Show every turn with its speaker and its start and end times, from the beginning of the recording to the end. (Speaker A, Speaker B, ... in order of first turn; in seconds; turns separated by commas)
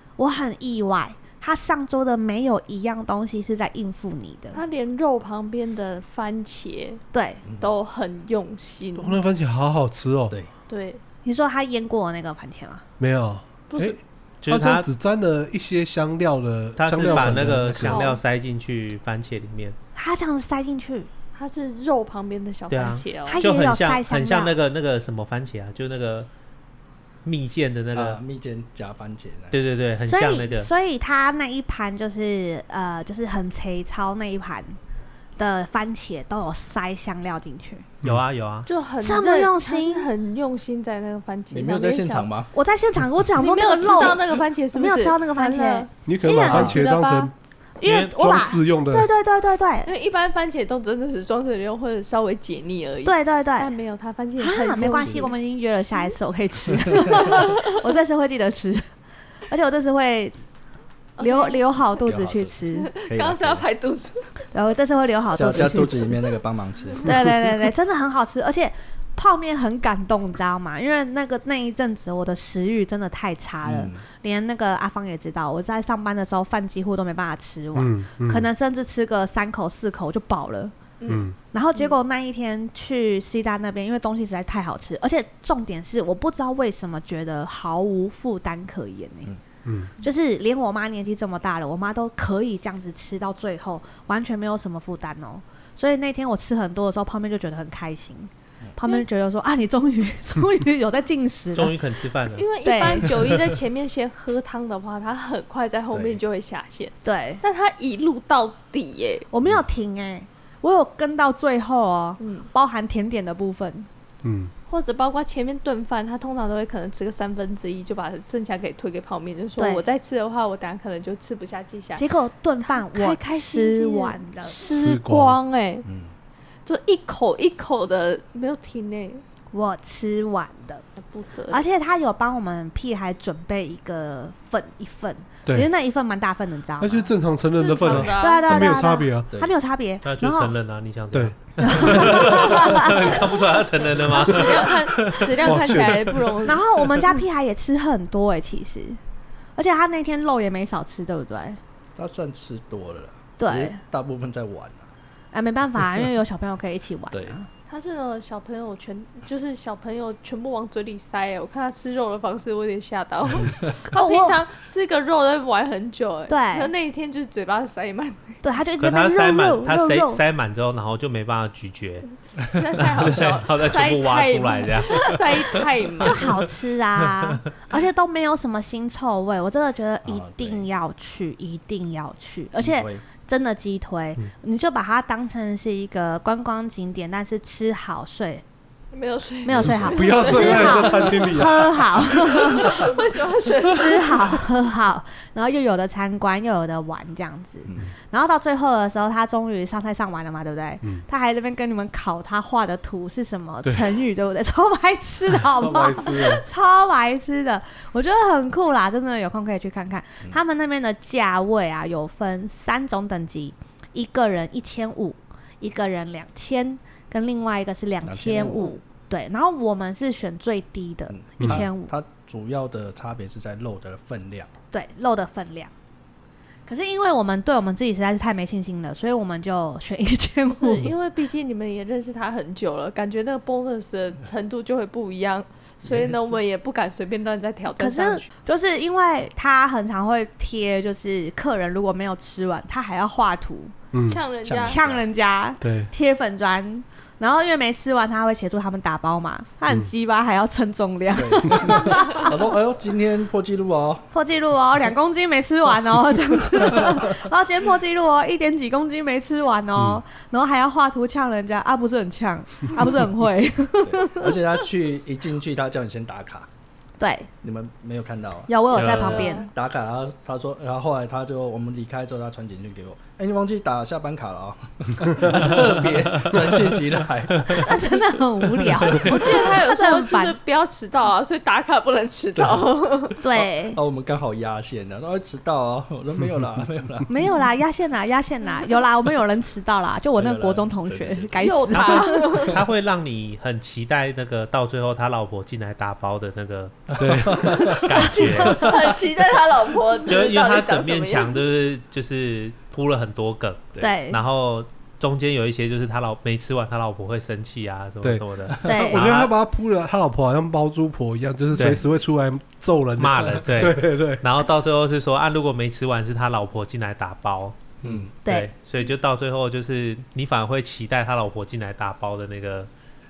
Speaker A: 0.2-4.6, Speaker B: 4.5-7.0, Speaker A: 7.1-7.4, Speaker C: 7.4-7.7, Speaker B: 7.6-9.2, Speaker D: 9.0-10.3, Speaker B: 10.7-11.0, Speaker A: 11.2-12.8, Speaker D: 13.0-18.1, Speaker B: 13.7-14.0, Speaker E: 14.4-14.9, Speaker E: 16.8-19.8, Speaker B: 17.0-18.2, Speaker A: 19.9-21.1, Speaker B: 21.3-23.4, Speaker E: 22.7-26.3, Speaker A: 23.2-24.5, Speaker E: 27.2-28.2, Speaker C: 27.9-29.6, Speaker E: 29.5-30.7, Speaker A: 30.1-34.8, Speaker A: 35.4-37.9, Speaker E: 38.0-38.7, Speaker B: 38.6-42.3, Speaker A: 39.0-40.1, Speaker C: 41.5-42.5, Speaker A: 42.5-46.8, Speaker B: 43.4-45.9, Speaker D: 46.0-47.3, Speaker B: 46.4-47.3, Speaker A: 47.8-49.9, Speaker E: 47.8-48.3, Speaker D: 48.1-49.1, Speaker B: 49.8-55.3, Speaker A: 53.0-53.7, Speaker A: 54.4-58.9, Speaker C: 55.0-55.2, Speaker B: 57.4-57.7, Speaker A: 59.5-60.4, Speaker B: 61.2-61.6, Speaker A: 61.2-62.9, Speaker C: 62.1-63.6, Speaker B: 62.7-64.5, Speaker A: 64.5-66.3, Speaker C: 65.3-67.4, Speaker A: 67.0-80.7, Speaker C: 73.6-74.0, Speaker D: 77.7-78.5, Speaker B: 81.0-81.9, Speaker D: 81.1-81.3, Speaker A: 81.5-89.3, Speaker D: 89.6-89.9, Speaker A: 90.0-101.8, Speaker E: 101.5-102.5, Speaker B: 102.3-109.3, Speaker A: 102.6-103.1, Speaker C: 105.9-106.2, Speaker A: 107.0-107.4, Speaker A: 109.3-113.9, Speaker B: 112.2-112.5, Speaker D: 114.2-114.5, Speaker B: 114.7-122.1, Speaker A: 119.6-119.9, Speaker A: 122.0-124.7, Speaker B: 122.7-125.9, Speaker D: 124.7-125.4, Speaker C: 125.8-126.1, Speaker B: 126.6-129.2, Speaker A: 129.5-130.8, Speaker B: 131.0-131.6, Speaker A: 131.5-137.1, Speaker D: 136.8-139.3, Speaker B: 137.6-138.5, Speaker A: 138.1-140.5, Speaker E: 140.0-145.3, Speaker D: 141.1-142.9, Speaker A: 141.6-143.2, Speaker B: 144.1-146.6, Speaker D: 144.2-146.4, Speaker A: 146.4-149.0, Speaker A: 149.6-151.6, Speaker C: 151.9-154.9, Speaker A: 153.4-153.8, Speaker A: 155.3-157.5, Speaker B: 157.7-168.4, Speaker A: 163.9-164.4, Speaker A: 166.3-166.7, Speaker A: 168.4-170.2, Speaker E: 168.8-172.1, Speaker B: 172.4-176.4, Speaker E: 172.8-175.6, Speaker A: 176.0-188.4, Speaker C: 180.0-180.7, Speaker C: 182.5-183.0, Speaker B: 188.9-191.5, Speaker A: 189.4-192.8, Speaker C: 189.5-190.2, Speaker D: 189.7-192.6, Speaker B: 192.1-194.3, Speaker A: 193.7-221.9, Speaker D: 203.6-203.9, Speaker D: 205.4-206.4, Speaker C: 218.0-218.8, Speaker C: 221.1-224.5, Speaker A: 224.7-225.7, Speaker A: 226.7-230.9, Speaker B: 230.5-238.3, Speaker C: 235.8-236.4, Speaker A: 237.8-243.7, Speaker D: 243.9-244.2, Speaker B: 244.1-244.8, Speaker C: 244.4-245.0, Speaker A: 244.6-252.5, Speaker D: 245.6-245.9, Speaker C: 251.1-254.1, Speaker B: 251.9-252.3, Speaker A: 254.1-264.3, Speaker C: 256.7-257.0, Speaker D: 259.8-260.0, Speaker C: 263.8-266.5, Speaker A: 267.0-267.3, Speaker C: 267.4-268.5, Speaker A: 268.5-269.5, Speaker E: 268.7-269.3, Speaker B: 268.9-269.5, Speaker C: 269.5-277.7, Speaker A: 277.6-280.4, Speaker B: 278.9-283.2, Speaker A: 283.2-283.8, Speaker C: 283.3-287.1, Speaker D: 286.2-286.5, Speaker A: 287.1-292.5, Speaker C: 290.2-292.0, Speaker B: 291.4-292.6, Speaker E: 292.5-298.9, Speaker C: 296.9-299.6, Speaker D: 297.0-298.3, Speaker B: 298.0-301.4, Speaker E: 300.1-309.3, Speaker A: 303.8-304.2, Speaker D: 308.0-314.2, Speaker A: 308.6-309.1, Speaker E: 311.6-311.8, Speaker E: 313.0-317.6, Speaker C: 317.8-318.1, Speaker E: 318.2-322.7, Speaker A: 318.2-318.5